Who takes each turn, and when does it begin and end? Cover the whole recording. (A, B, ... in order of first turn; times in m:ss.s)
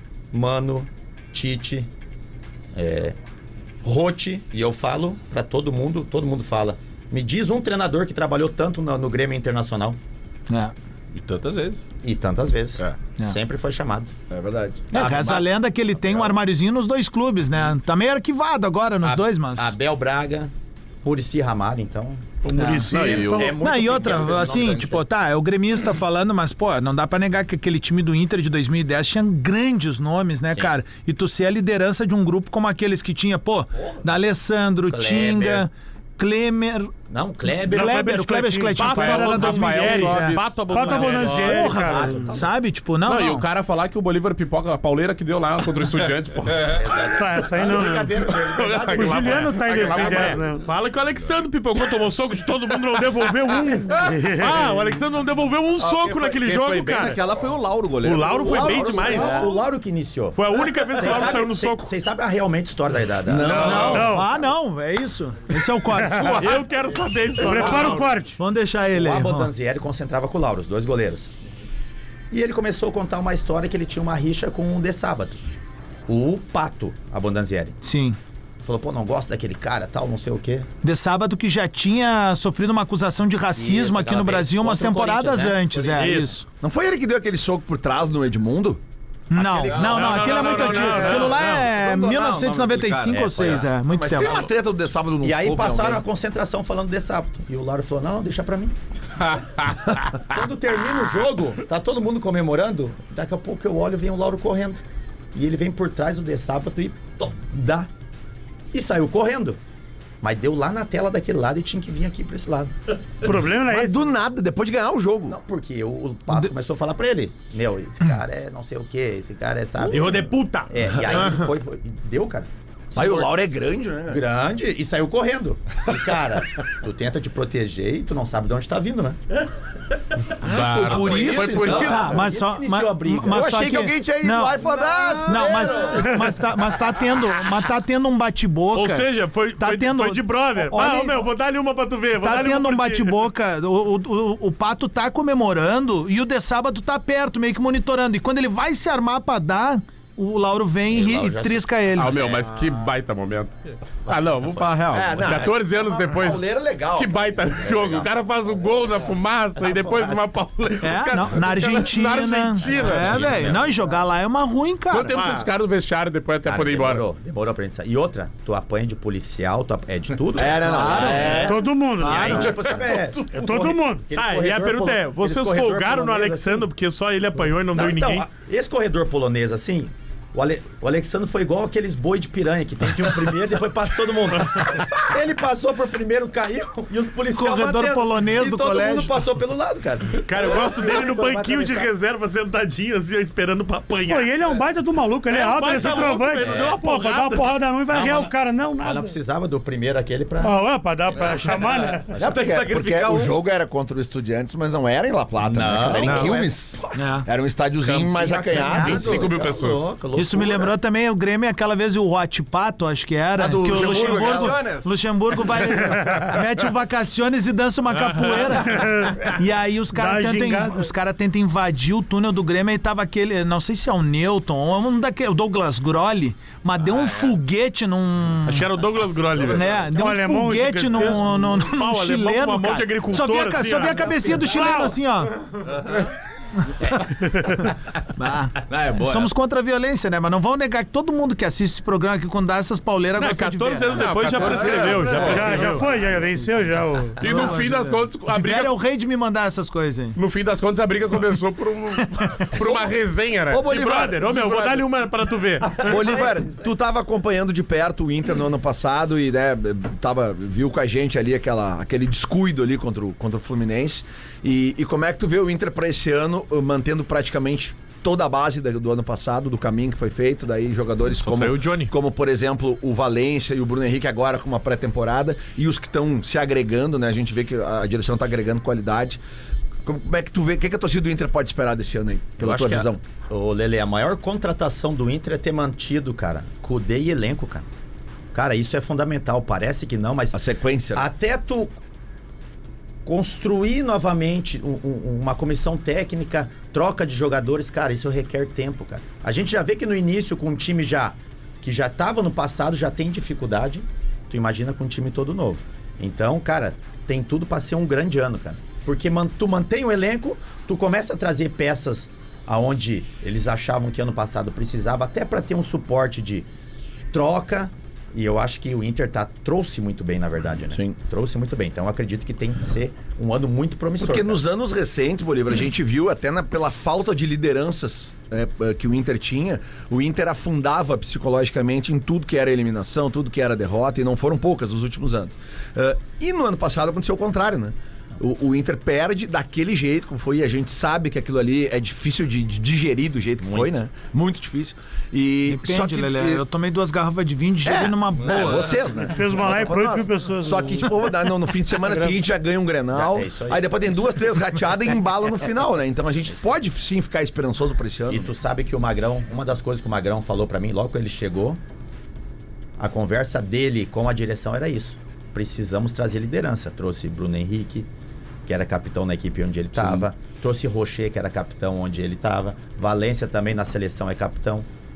0:00.3-0:01.9 A
0:02.7-0:03.2 A
0:03.8-0:10.0 A
0:10.5-0:10.7 B
0:11.1-0:11.8 C
0:12.0-0:14.1 A
0:14.3-0:14.9 D
0:14.9-0:15.5 A
0:14.9-0:19.7 B
0:19.0-0:20.5 A
0:21.0-0:22.2 A
0:22.4-0:23.6 E
0:22.6-0:22.9 B
0:22.9-0:23.5 F
0:23.1-0:25.0 A
0:23.5-0:36.9 B
0:34.9-0:35.7 A
0:37.1-0:38.0 A
0:37.6-0:40.4 B
0:37.7-0:40.2 E
0:38.7-0:42.2 G
0:39.2-0:41.5 F
0:40.7-0:42.3 E
0:41.7-0:42.5 A
0:42.3-0:43.4 B
0:43.0-0:47.1 F
0:46.6-0:50.3 A
0:47.1-0:48.1 E
0:48.3-0:50.5 F
0:48.9-0:50.6 E
0:49.9-0:57.2 G
0:54.0-0:54.8 E
0:55.8-0:59.4 C
0:58.0-0:59.5 G
0:58.4-1:04.1 A
1:00.4-1:01.9 G
1:03.2-1:04.2 D
1:03.5-1:03.9 C
1:03.6-1:06.6 B
1:03.7-1:04.3 E
1:05.9-1:06.6 E
1:06.2-1:08.1 G
1:07.4-1:08.4 E
1:07.4-1:08.0 A
1:08.4-1:09.5 B
1:08.9-1:11.3 A
1:12.3-1:15.4 A
1:16.1-1:17.8 A
1:17.8-1:18.2 B
1:18.6-1:20.7 A
1:20.8-1:26.4 B
1:23.6-1:26.2 A
1:25.9-1:26.4 G
1:26.6-1:28.8 D
1:29.3-1:34.5 B
1:29.7-1:31.7 G
1:29.7-1:31.2 C
1:30.9-1:36.0 D
1:32.2-1:33.6 C
1:35.2-1:38.7 A
1:39.4-1:40.0 F
1:40.2-1:44.8 A
1:45.3-1:47.9 A
1:48.7-1:49.6 A
1:50.2-1:52.8 A
1:53.2-1:54.1 E
1:53.5-1:55.4 D
1:55.3-2:09.2 A
1:59.8-2:01.5 G
2:02.9-2:04.2 D
2:10.4-2:12.2 F
2:10.4-2:12.0 D
2:10.9-2:13.5 A
2:10.9-2:11.5 C
2:11.0-2:14.7 B
2:13.3-2:16.1 D
2:15.0-2:16.1 A
2:15.2-2:21.3 B
2:18.7-2:23.2 G
2:22.2-2:32.4 B
2:30.9-2:31.7 A
2:32.0-2:33.5 F
2:34.0-2:43.6 F
2:34.8-2:38.1 D
2:39.9-2:40.2 A
2:40.8-2:45.2 B
2:42.8-2:43.6 A
2:44.9-2:47.0 F
2:45.1-2:45.5 G
2:46.4-2:56.7 A
2:50.3-2:51.6 D
2:50.6-2:51.5 B
2:51.4-2:52.6 E
2:52.0-2:52.6 B
2:52.7-2:53.0 F
2:53.2-2:54.1 E
2:54.1-2:58.3 G
2:57.7-3:11.9 A
3:07.3-3:09.2 B
3:10.2-3:14.3 G
3:14.0-3:19.1 E
3:15.3-3:17.5 G
3:16.4-3:16.8 A
3:17.9-3:22.4 A
3:20.4-3:22.1 E
3:22.2-3:29.4 D
3:22.2-3:23.4 G
3:25.4-3:26.5 A
3:26.0-3:26.3 G
3:27.0-3:27.3 B
3:27.9-3:30.7 A
3:28.7-3:29.8 F
3:30.1-3:48.7 B
3:33.4-3:35.0 D
3:33.5-3:34.7 G
3:35.7-3:36.2 E
3:38.0-3:38.5 G
3:38.6-3:39.3 E
3:39.9-3:40.8 E
3:48.4-3:49.8 G
3:49.5-3:55.3 B
3:49.9-3:51.3 E
3:50.9-3:55.0 G
3:55.7-3:56.0 C
3:58.2-4:04.1 B
3:58.7-3:59.3 C
4:03.2-4:06.0 G
4:03.9-4:05.8 F
4:05.1-4:07.2 E
4:07.2-4:08.8 F
4:07.2-4:10.2 B
4:10.2-4:13.7 F
4:12.6-4:13.0 D
4:13.5-4:14.3 D
4:13.5-4:16.2 G
4:14.3-4:14.9 F
4:15.6-4:16.6 A
4:15.8-4:39.2 D
4:31.2-4:31.9 G
4:39.8-4:43.0 D
4:42.4-4:47.6 A
4:48.3-4:51.8 A
4:50.3-4:51.1 D
4:53.0-5:16.5 A
5:17.1-5:24.4 A
5:20.7-5:21.0 D
5:24.0-5:46.4 D
5:43.4-5:43.7 A
5:45.4-5:48.8 B
5:47.6-5:58.3 D
5:49.1-5:50.9 E
5:51.8-5:52.1 E
5:52.9-5:54.3 A
5:58.1-6:01.6 A
6:02.8-6:07.9 A
6:08.4-6:14.7 A
6:09.8-6:10.0 D